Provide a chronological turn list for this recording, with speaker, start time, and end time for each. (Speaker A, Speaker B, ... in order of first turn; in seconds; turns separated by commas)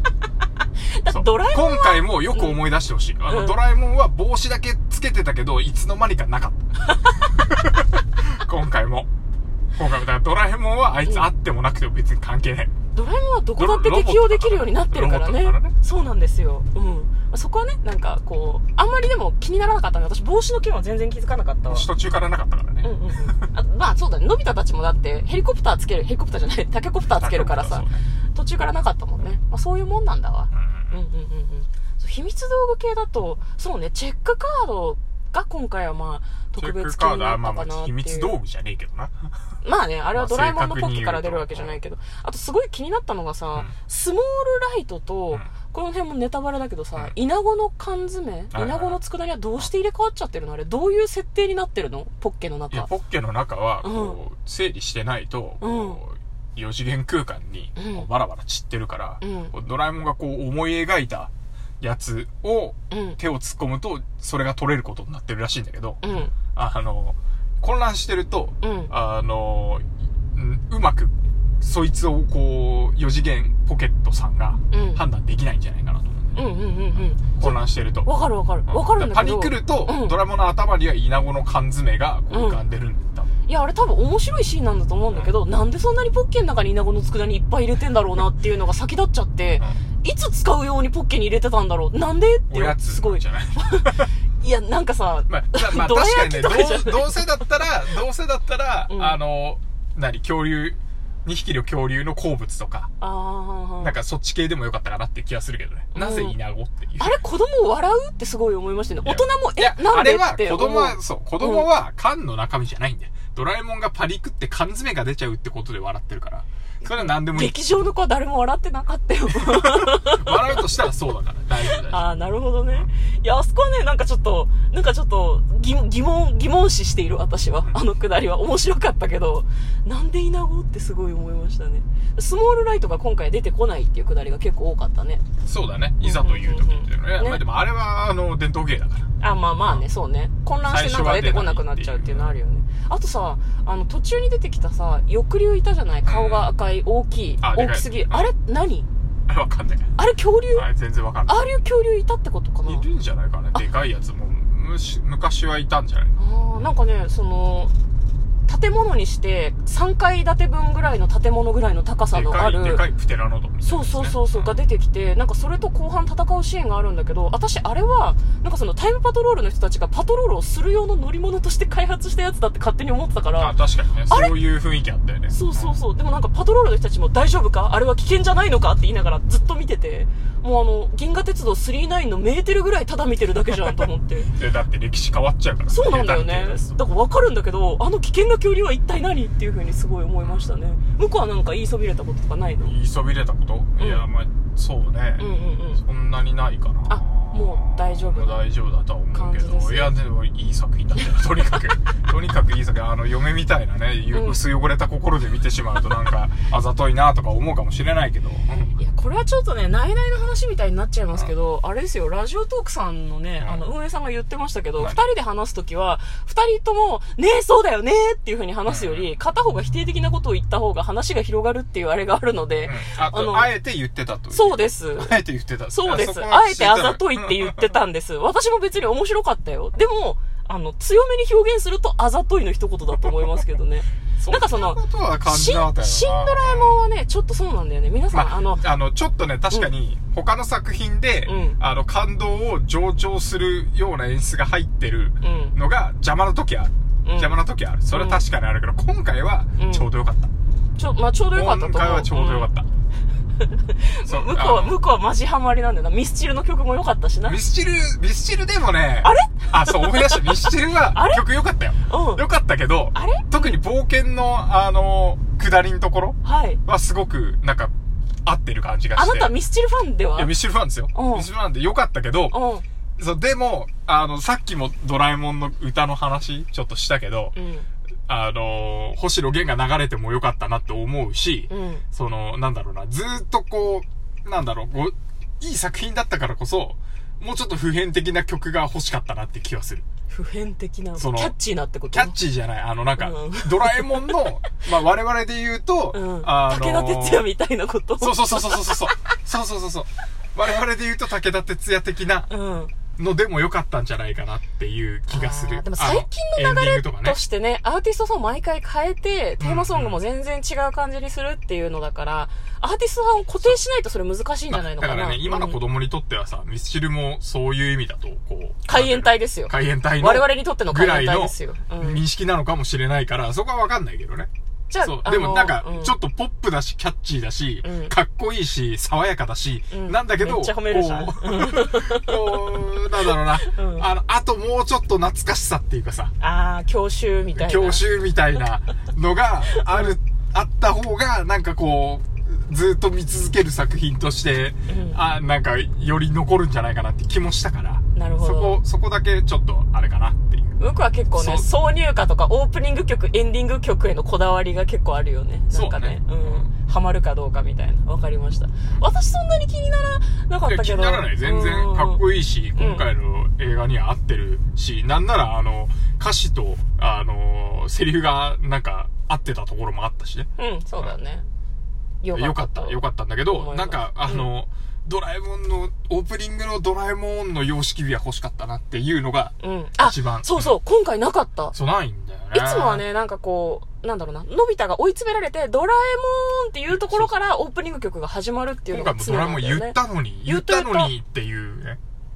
Speaker A: 0.9-2.6, Speaker B: 1.1-9.1, Speaker A: 3.3-3.6, Speaker B: 9.8-12.7, Speaker A: 11.0-11.3, Speaker A: 12.9-21.9, Speaker B: 13.6-15.7, Speaker B: 21.7-23.5, Speaker A: 22.8-38.3, Speaker B: 27.1-28.1, Speaker B: 30.5-31.0, Speaker B: 36.6-39.2, Speaker A: 39.6-52.9, Speaker B: 40.1-41.8, Speaker B: 48.5-49.0, Speaker B: 52.7-78.1, Speaker A: 53.8-54.2, Speaker A: 55.6-56.0, Speaker A: 57.8-58.1, Speaker A: 59.2-59.5, Speaker A: 62.9-63.2, Speaker A: 66.0-66.3, Speaker A: 68.6-68.9, Speaker A: 74.7-75.0, Speaker A: 76.3-80.2, Speaker B: 78.7-83.3, Speaker A: 82.3-82.6, Speaker A: 83.5-97.3, Speaker B: 92.5-94.1, Speaker B: 95.3-102.9, Speaker A: 98.9-99.2, Speaker A: 103.0-104.0, Speaker B: 103.8-107.2, Speaker A: 105.9-106.3, Speaker A: 107.0-111.7, Speaker B: 109.0-117.6, Speaker A: 116.9-120.5, Speaker B: 119.4-122.1, Speaker A: 121.7-135.2, Speaker B: 135.4-139.1, Speaker A: 136.0-137.5, Speaker A: 139.2-148.9, Speaker B: 140.7-142.3, Speaker B: 146.1-146.5, Speaker B: 147.4-148.3, Speaker B: 149.3-149.9, Speaker A: 150.0-150.7, Speaker B: 150.5-151.5, Speaker A: 151.3-152.8, Speaker B: 152.7-156.2, Speaker A: 156.2-157.7, Speaker A: 158.5-162.8, Speaker B: 162.1-164.6, Speaker A: 163.7-173.6, Speaker B: 173.4-175.8, Speaker A: 174.1-174.4, Speaker A: 175.3-184.3, Speaker B: 184.3-186.8, Speaker A: 185.7-192.7, Speaker B: 190.2-190.5, Speaker B: 192.6-208.8, Speaker A: 193.8-194.0, Speaker A: 195.2-195.8, Speaker A: 196.9-198.5, Speaker A: 199.1-199.9, Speaker A: 201.0-201.7, Speaker A: 204.1-204.4, Speaker A: 208.8-223.5, Speaker B: 213.4-213.7, Speaker B: 218.7-219.1, Speaker B: 222.7-227.6, Speaker A: 224.3-225.1, Speaker A: 225.7-238.6, Speaker B: 234.2-236.8, Speaker B: 238.1-250.3, Speaker A: 241.3-241.6, Speaker A: 245.2-245.6, Speaker A: 247.1-247.4, Speaker A: 247.9-248.2, Speaker A: 249.6-249.9, Speaker A: 250.8-252.5, Speaker B: 251.3-252.7, Speaker A: 253.4-257.4, Speaker B: 254.0-254.8, Speaker B: 257.3-267.7, Speaker A: 259.0-261.2, Speaker A: 261.9-262.2, Speaker A: 262.9-263.6, Speaker A: 266.2-266.6, Speaker B: 268.2-269.4, Speaker A: 268.9-270.3, Speaker B: 270.1-272.4, Speaker A: 270.9-271.3, Speaker A: 272.3-272.6, Speaker B: 273.0-277.4, Speaker A: 277.4-277.7, Speaker B: 278.1-289.9, Speaker A: 281.5-281.8, Speaker A: 290.1-292.1, Speaker B: 291.0-291.3, Speaker B: 291.9-297.3, Speaker A: 293.0-294.5, Speaker A: 295.9-298.9, Speaker B: 298.0-302.3, Speaker A: 302.3-302.7, Speaker B: 303.0-307.2, Speaker A: 305.1-315.6, Speaker B: 309.4-310.0, Speaker B: 314.5-324.3, Speaker A: 318.7-322.0, Speaker A: 324.7-326.0, Speaker B: 324.8-336.1, Speaker A: 327.6-327.9, Speaker A: 329.7-332.6, Speaker A: 333.4-333.9, Speaker A: 336.2-337.8, Speaker B: 337.4-350.5, Speaker A: 339.5-339.9, Speaker A: 344.7-345.0, Speaker A: 347.9-348.6, Speaker A: 350.6-362.0, Speaker B: 351.1-351.5, Speaker B: 355.5-356.5, Speaker B: 360.4-370.9, Speaker A: 362.6-362.9, Speaker A: 370.4-371.3, Speaker A: 372.0-374.3, Speaker B: 372.1-380.6, Speaker A: 379.4-381.6, Speaker B: 381.5-382.8, Speaker A: 382.3-390.9, Speaker B: 386.7-387.1, Speaker B: 388.7-391.8